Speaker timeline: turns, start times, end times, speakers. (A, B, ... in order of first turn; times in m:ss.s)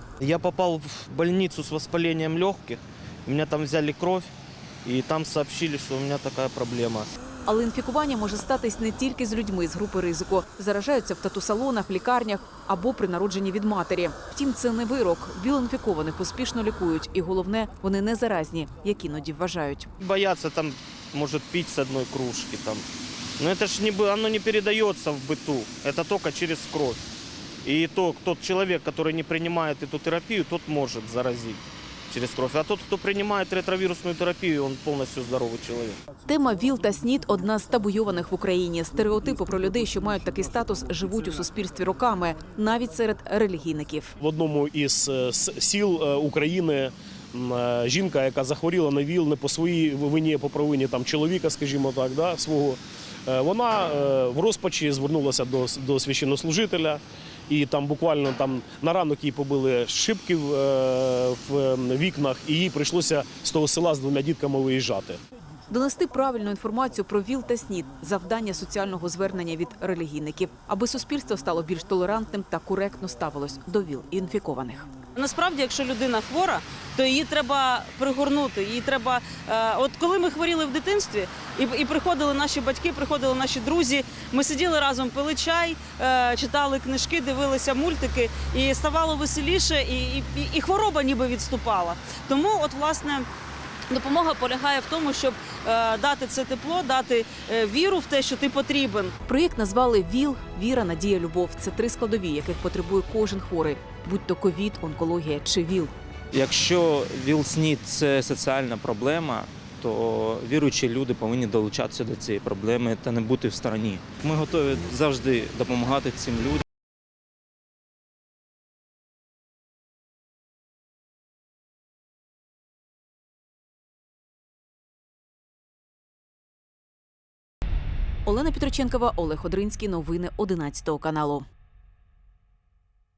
0:00.2-0:04.3 A
0:04.8-0:07.1 A
0:07.4-0:19.9 B
0:20.0-0:22.8 A
0:23.4-0:27.0 A
0:27.6-0:36.0 A
0:36.2-0:44.1 B
0:44.2-1:05.2 C
1:05.7-1:14.9 B
1:15.2-1:33.2 D
1:33.9-1:39.1 D
1:39.2-1:45.9 B
1:46.3-1:56.6 E
2:08.2-2:11.4 B